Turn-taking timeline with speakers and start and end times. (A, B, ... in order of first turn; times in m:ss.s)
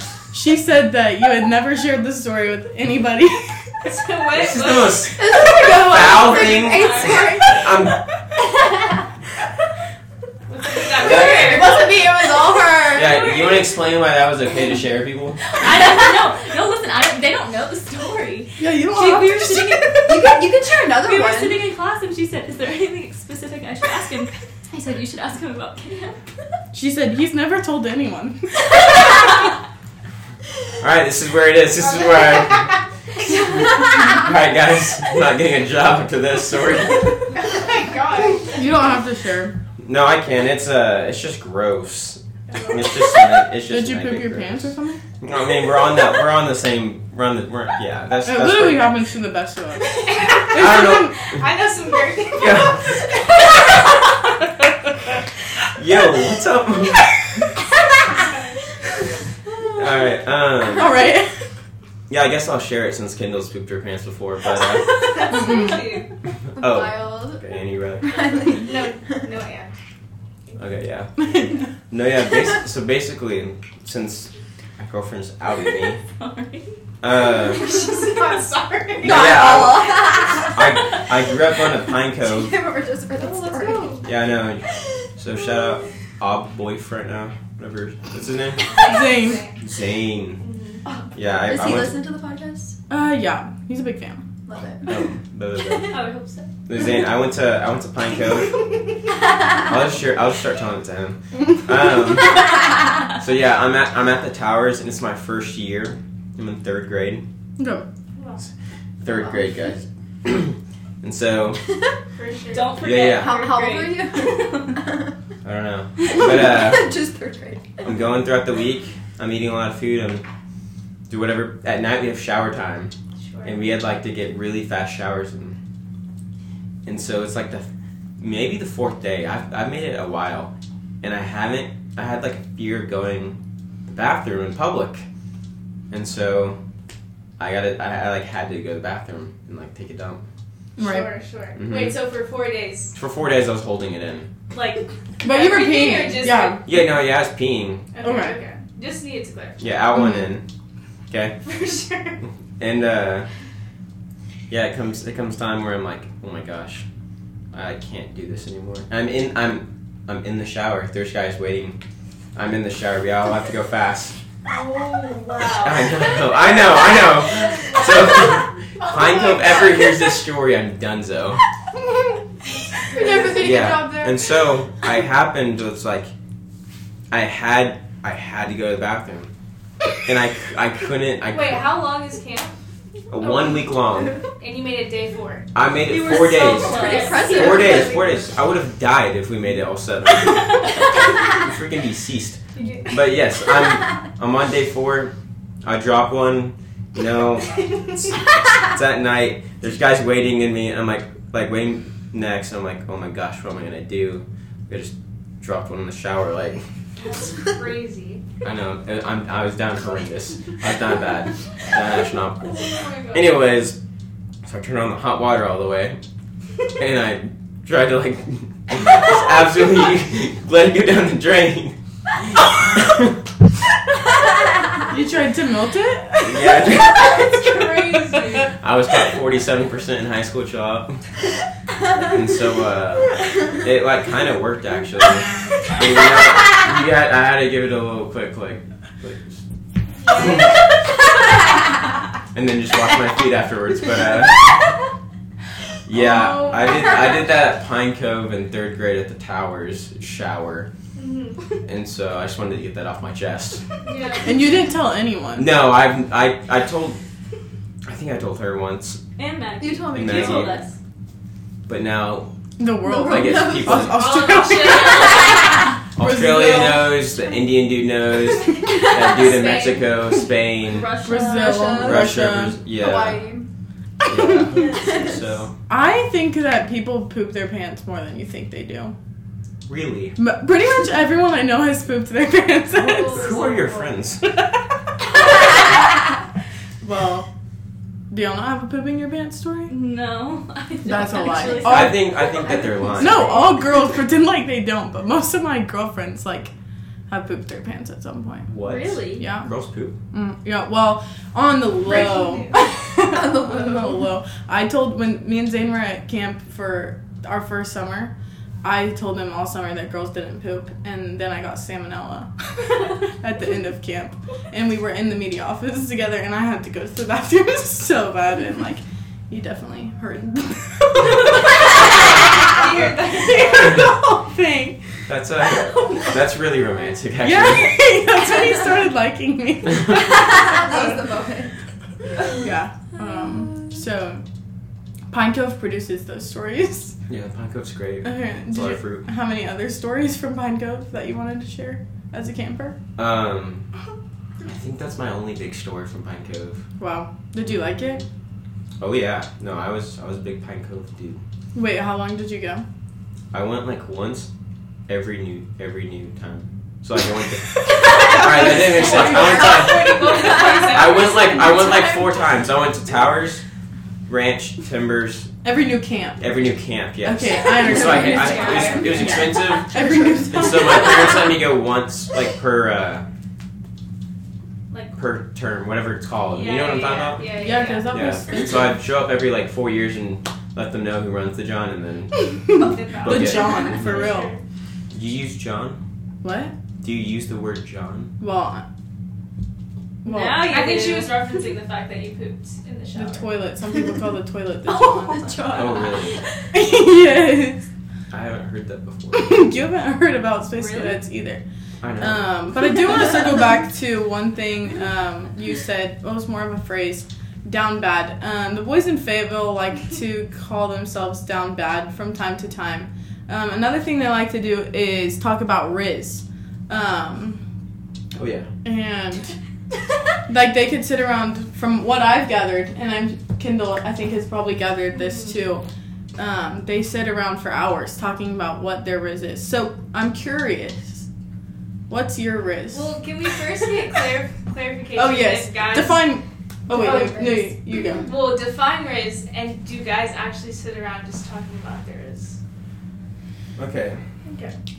0:00.2-0:03.9 A
0:03.8-0:05.3 B
0:04.3-0:08.0 C
0:05.1-0:07.9 D
0:06.7-0:07.2 B
0:08.4-0:09.0 D
0:10.5-0:11.9 B
0:10.9-0:11.6 C
0:11.0-0:13.4 D
0:12.9-0:15.4 C
0:15.6-0:20.0 E
0:18.6-0:20.4 A
0:20.0-0:21.6 D
0:21.0-0:26.2 E
0:26.7-0:29.2 A
0:30.8-0:32.8 C
0:31.8-0:32.8 B
0:33.4-0:37.3 C
0:33.4-0:34.3 D
0:37.3-0:38.7 B
0:38.5-0:39.6 A
0:39.8-0:49.0 C
0:42.5-0:43.2 B
0:43.7-0:45.0 A
0:48.2-0:51.2 A
0:49.9-0:53.0 B
0:50.5-0:51.5 C
0:52.4-0:53.1 C
0:55.7-0:57.5 C
0:58.1-0:58.6 B
0:59.7-1:01.0 C
1:00.8-1:01.3 A
1:02.1-1:05.4 C
1:05.2-1:06.1 B
1:05.2-1:06.0 A
1:06.5-1:08.1 C
1:06.6-1:07.5 D
1:08.0-1:09.2 D
1:08.4-1:09.8 B
1:10.6-1:11.1 C
1:11.2-1:11.6 A
1:11.9-1:16.0 C
1:16.1-1:16.7 E
1:17.0-1:17.8 C
1:17.5-1:19.6 B
1:19.0-1:20.7 D
1:19.0-1:22.5 C
1:22.2-1:24.0 D
1:23.1-1:24.1 B
1:24.0-1:28.8 C
1:28.6-1:29.6 B
1:28.8-1:29.4 A
1:29.6-1:30.4 C
1:30.4-1:30.8 B
1:30.8-1:32.8 D
1:31.1-1:32.0 C
1:32.9-1:34.2 A
1:34.4-1:34.9 D
1:34.8-1:36.0 C
1:35.9-1:36.5 E
1:36.7-1:38.6 C
1:39.6-1:42.5 C
1:43.1-1:47.2 C
1:47.6-1:47.8 A
1:48.1-1:48.4 B
1:49.0-1:51.6 C
1:49.1-1:49.7 D
1:52.1-1:52.9 B
1:52.5-1:54.8 E
1:52.8-1:53.3 C
1:53.0-1:55.1 D
1:55.4-1:56.9 C
1:56.0-1:57.9 D
1:57.8-2:00.2 C
2:01.1-2:02.9 C
2:03.2-2:03.6 B
2:03.4-2:05.6 C
2:06.8-2:07.7 C
2:08.2-2:15.0 C
2:15.9-2:16.6 C
2:17.4-2:20.2 C
2:20.8-2:21.1 A
2:20.8-2:22.9 B
2:21.5-2:22.0 C
2:22.9-2:24.3 C
2:24.5-2:26.8 B
2:25.2-2:26.6 A
2:26.6-2:28.0 C
2:27.9-2:29.6 B
2:28.0-2:28.4 A
2:29.6-2:30.4 C
2:29.9-2:30.3 A
2:31.1-2:31.4 C
2:31.4-2:32.2 B
2:32.6-2:33.3 C
2:34.5-2:36.8 C
2:37.5-2:41.8 C
2:42.3-2:44.2 C
2:44.4-2:48.2 B
2:45.6-2:51.4 C
2:48.8-2:49.6 D
2:52.8-2:54.4 B
2:52.9-2:54.2 D
2:53.3-2:56.1 C
2:57.1-2:59.3 C
3:00.0-3:01.8 C
3:01.2-3:02.5 B
3:03.1-3:04.2 C
3:03.2-3:03.6 B
3:04.2-3:05.5 B
3:05.5-3:10.6 C
3:05.8-3:07.6 E
3:06.4-3:08.2 B
3:06.6-3:08.1 D
3:11.3-3:26.6 C
3:12.5-3:13.1 B
3:17.7-3:18.0 B
3:27.0-3:28.2 B
3:28.4-3:33.8 C
3:32.4-3:33.3 B
3:34.4-3:36.0 C
3:36.7-3:43.2 C
3:44.9-3:46.9 A
3:46.2-3:47.4 C
3:46.9-3:48.5 B
3:48.6-3:51.0 C
3:52.0-3:59.4 C
4:00.0-4:00.6 B
4:02.3-4:04.7 C
4:05.8-4:10.7 C
4:06.8-4:07.1 B
4:10.9-4:11.6 B
4:11.6-4:13.7 C
4:13.8-4:14.4 B
4:14.2-4:15.5 A
4:15.4-4:17.0 C
4:17.8-4:19.0 C
4:19.2-4:20.8 E
4:19.6-4:20.6 D
4:19.9-4:20.6 C
4:21.7-4:22.3 C
4:22.6-4:27.0 A
4:22.8-4:23.9 D
4:23.0-4:24.2 C
4:23.9-4:25.5 B
4:25.0-4:25.5 E
4:25.9-4:30.9 C
4:28.5-4:29.3 D
4:28.5-4:30.0 B
4:30.6-4:31.8 E
4:31.0-4:32.6 A
4:31.1-4:32.2 D
4:31.7-4:33.2 C
4:32.7-4:33.5 D
4:34.1-4:35.5 C
4:34.5-4:35.2 D
4:34.6-4:35.0 B
4:35.7-4:38.9 A
4:39.6-4:40.2 C
4:40.2-4:43.3 A
4:42.8-4:44.0 B
4:43.1-4:44.2 C
4:46.8-4:47.2 A
4:48.1-4:49.7 A
4:49.7-4:52.0 E
4:50.8-4:52.0 A
4:51.5-4:53.6 D
4:51.6-4:53.3 C
4:53.0-4:56.5 A
4:57.1-4:58.5 A
4:58.4-5:00.0 C
4:58.6-4:59.3 E
4:59.1-4:59.5 A
5:00.1-5:25.0 A
5:01.8-5:02.6 B
5:03.0-5:04.0 D
5:22.4-5:23.9 B
5:25.1-5:27.8 C
5:27.2-5:31.0 A
5:30.1-5:31.5 D
5:32.3-5:34.2 A
5:35.1-5:37.0 A
5:37.1-5:39.0 C
5:38.0-5:42.8 A
5:43.0-5:43.7 C
5:44.4-5:46.6 C
5:46.8-5:48.0 A
5:48.8-5:51.2 C
5:51.5-5:52.6 A
5:53.3-5:54.3 C
5:54.9-6:00.0 C
5:57.5-5:58.9 A
5:58.0-6:01.8 D
5:58.8-6:01.8 B
6:00.6-6:03.4 C
6:04.1-6:05.3 C
6:05.4-6:06.3 A
6:06.2-6:13.0 C
6:07.0-6:11.3 A
6:07.7-6:09.4 D
6:07.7-6:09.2 E
6:08.3-6:08.9 B
6:14.9-6:22.3 C
6:16.3-6:18.1 B
6:17.3-6:18.8 A
6:22.2-6:24.3 A
6:22.5-6:24.4 B
6:23.0-6:23.9 C
6:24.9-6:25.8 C
6:26.2-6:26.5 A
6:26.8-6:28.1 C
6:28.2-6:28.6 A
6:30.0-6:30.6 A
6:30.0-6:31.3 E
6:30.4-6:33.3 B
6:32.9-6:35.4 A
6:34.7-6:36.2 E
6:35.5-6:36.2 C
6:36.5-6:37.7 A
6:38.1-6:39.4 C
6:39.1-6:41.4 A
6:40.5-6:41.0 E
6:41.8-6:42.3 C
6:42.0-6:57.4 A
6:58.1-6:58.5 C
6:58.6-6:59.4 A
7:00.2-7:11.0 A
7:05.0-7:05.4 B
7:11.9-7:13.1 A
7:12.7-7:16.2 B
7:14.9-7:18.1 A
7:16.7-7:17.5 D
7:16.7-7:17.3 B
7:18.0-7:22.4 B
7:23.6-7:24.0 C
7:24.2-7:24.5 B